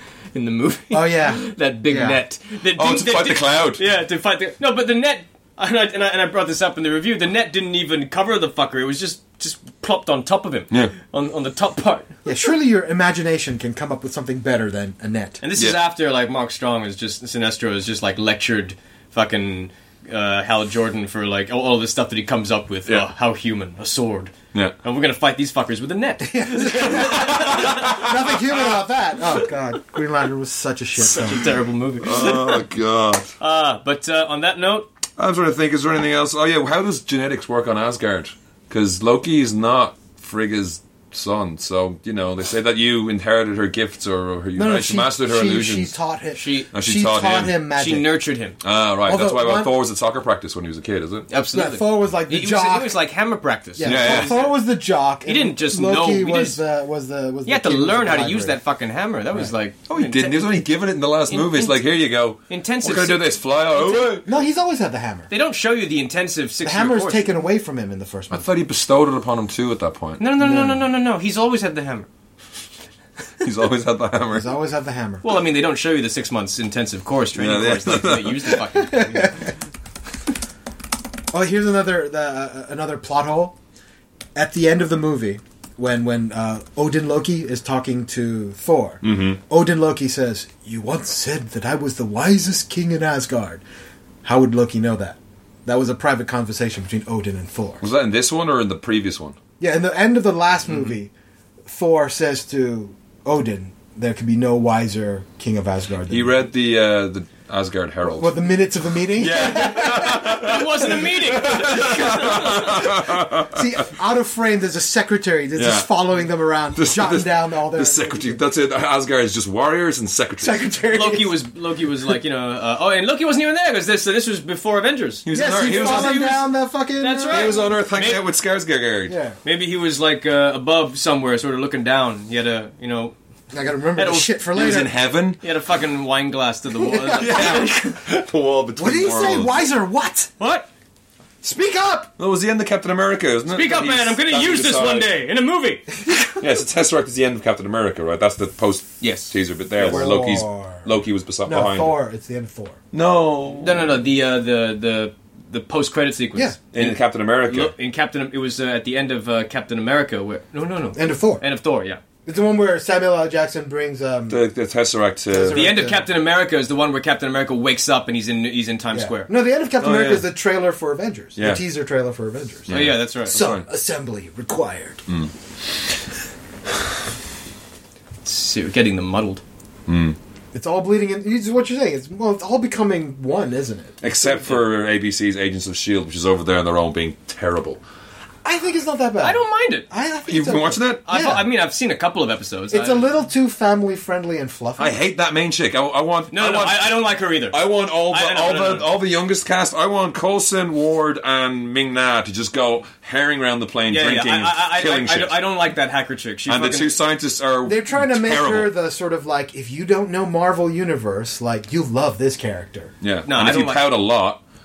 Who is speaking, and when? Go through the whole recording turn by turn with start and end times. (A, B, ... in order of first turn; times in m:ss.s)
0:00.3-0:12.2 A
0:00.9-0:02.2 B
0:02.7-0:03.8 C
0:12.2-0:15.4 B
0:15.4-0:28.1 A
0:26.2-0:31.5 B
0:27.0-0:28.0 C
0:31.0-0:32.6 A
0:32.0-0:33.3 C
0:33.4-0:34.9 A
0:35.2-0:45.9 C
0:44.5-0:48.1 B
0:46.3-0:46.7 A
0:46.7-0:47.6 C
0:47.7-0:48.6 A
0:48.6-0:51.3 C
0:49.0-0:49.7 B
0:51.3-0:54.6 A
0:51.5-0:53.0 B
0:53.8-0:58.6 B
0:53.8-0:54.5 C
0:55.2-0:56.6 A
0:57.4-1:00.5 A
0:59.9-1:04.2 C
1:01.3-1:01.8 A
1:02.5-1:04.3 A
1:04.2-1:05.3 B
1:05.3-1:07.3 A
1:06.6-1:08.5 B
1:08.3-1:10.2 C
1:10.2-1:12.1 A
1:10.4-1:10.8 B
1:13.4-1:14.5 C
1:14.3-1:15.2 B
1:15.2-1:19.4 A
1:17.3-1:18.6 C
1:18.7-1:19.5 B
1:21.3-1:23.5 B
1:24.3-1:33.6 B
1:29.0-1:29.4 C
1:34.2-1:37.8 B
1:37.8-1:39.4 C
1:39.6-1:41.1 B
1:41.6-1:46.3 B
1:46.1-1:48.4 C
1:48.2-1:58.4 B
1:49.1-1:53.6 C
1:49.8-1:52.9 A
1:55.6-1:55.9 C
1:56.8-2:00.6 C
2:00.4-2:01.3 B
2:00.9-2:08.2 A
2:05.2-2:06.2 C
2:05.3-2:07.7 B
2:07.3-2:09.2 C
2:09.1-2:09.4 B
2:09.4-2:13.1 A
2:13.5-2:14.9 B
2:14.0-2:14.4 A
2:14.5-2:15.4 C
2:15.4-2:18.0 A
2:16.8-2:17.7 B
2:17.1-2:19.6 C
2:18.8-2:20.3 B
2:20.4-2:20.7 A
2:21.4-2:22.1 B
2:22.2-2:25.1 C
2:23.5-2:26.4 A
2:26.3-2:32.0 C
2:29.0-2:30.0 A
2:29.8-2:30.9 B
2:31.4-2:32.8 B
2:32.9-2:33.9 C
2:33.6-2:42.0 A
2:36.7-2:37.7 C
2:40.9-2:41.4 B
2:42.2-2:44.4 B
2:44.3-2:45.7 C
2:45.3-2:46.1 B
2:45.5-2:49.3 A
2:48.9-2:55.0 B
2:49.8-2:50.3 C
2:51.4-2:51.6 C
2:52.7-2:53.6 C
2:52.7-2:53.4 A
2:58.2-2:59.4 A
2:59.9-3:00.2 C
3:00.5-3:04.0 B
3:04.0-3:07.8 C
3:08.4-3:11.4 B
3:09.2-3:09.9 A
3:10.3-3:11.0 C
3:11.0-3:13.1 A
3:12.7-3:15.0 B
3:14.8-3:25.6 C
3:16.3-3:18.9 A
3:23.9-3:26.9 A
3:26.5-3:28.7 C
3:27.6-3:32.9 B
3:33.0-3:34.4 C
3:33.3-3:33.9 A